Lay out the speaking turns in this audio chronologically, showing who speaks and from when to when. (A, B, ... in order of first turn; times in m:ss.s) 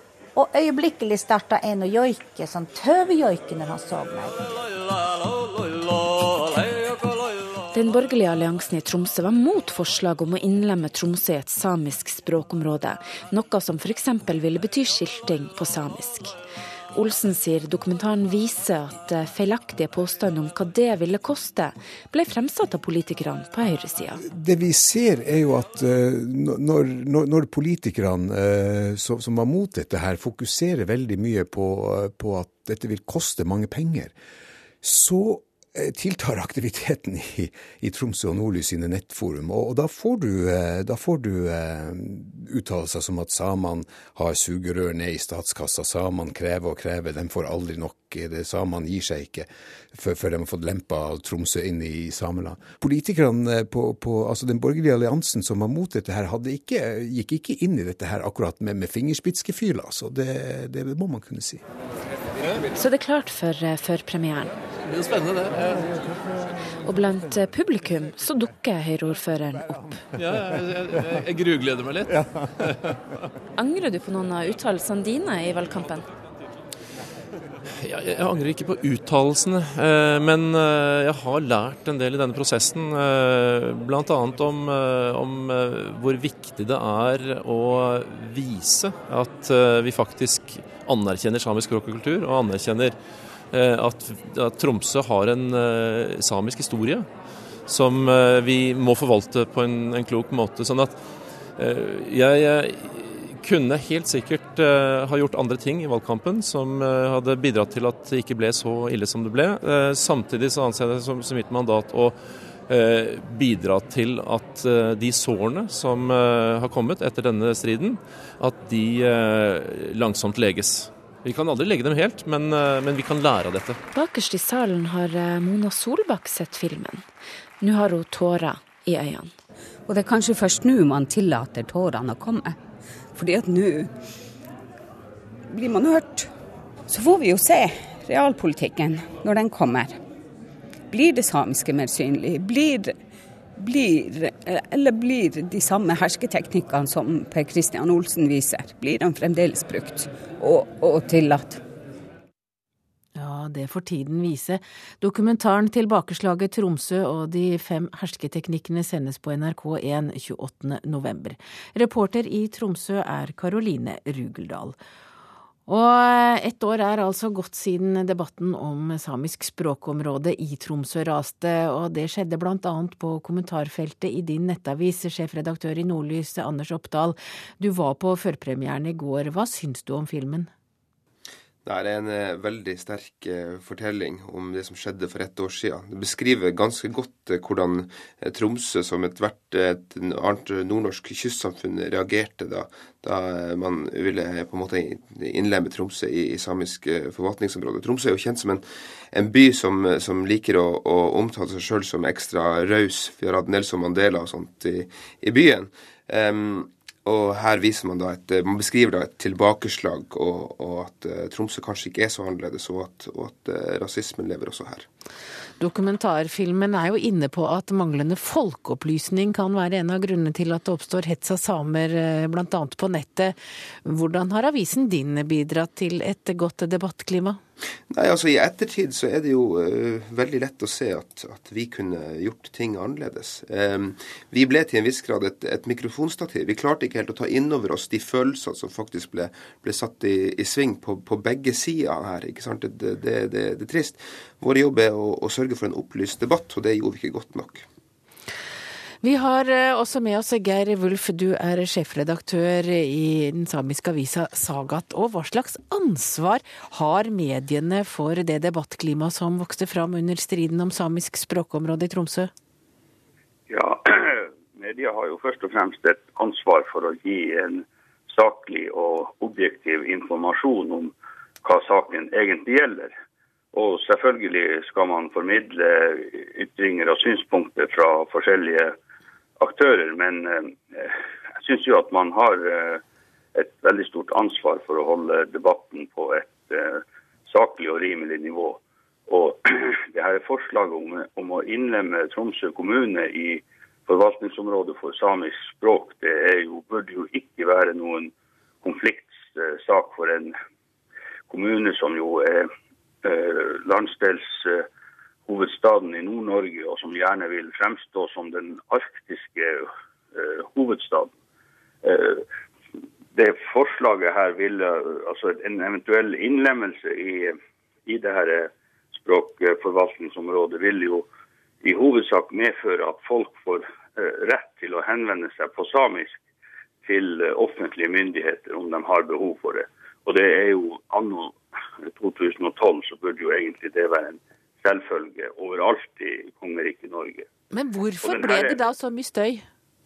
0:00.4-0:04.4 A
0:07.7-0:16.3 B
0:16.9-0:24.2 B
0:24.2-0:34.1 C
0:34.8-1:01.6 C
1:02.7-1:04.6 B
1:04.8-1:05.9 D
1:06.8-1:10.0 B
1:10.1-1:13.0 D
1:13.6-1:16.1 B
1:17.8-1:33.0 D
1:33.5-1:37.1 D
1:37.7-1:41.0 D
1:41.6-2:03.8 D
2:03.9-2:07.0 B
2:07.6-2:09.3 B
2:09.9-2:12.6 E
2:13.1-2:13.9 E
2:15.5-2:16.3 E
2:16.9-2:20.0 E
2:20.9-2:22.9 E
2:23.6-2:31.6 E
2:33.2-2:44.8 F
2:45.7-3:00.5 F
3:01.6-3:34.9 G
3:35.6-3:47.4 F
3:47.9-4:07.6 G
4:09.0-4:22.3 F
4:23.5-4:32.9 H
4:33.5-4:38.7 H
4:39.4-4:42.8 H
4:43.3-4:58.1 H
4:58.6-5:00.3 H
5:01.3-5:02.5 H
5:03.0-5:04.6 H
5:05.3-5:11.1 H
5:11.8-5:12.2 H
5:13.1-5:21.0 H
5:21.6-5:26.2 H
5:26.8-5:31.3 H
5:31.9-5:37.2 H
5:37.5-5:39.4 F
5:38.0-5:38.6 H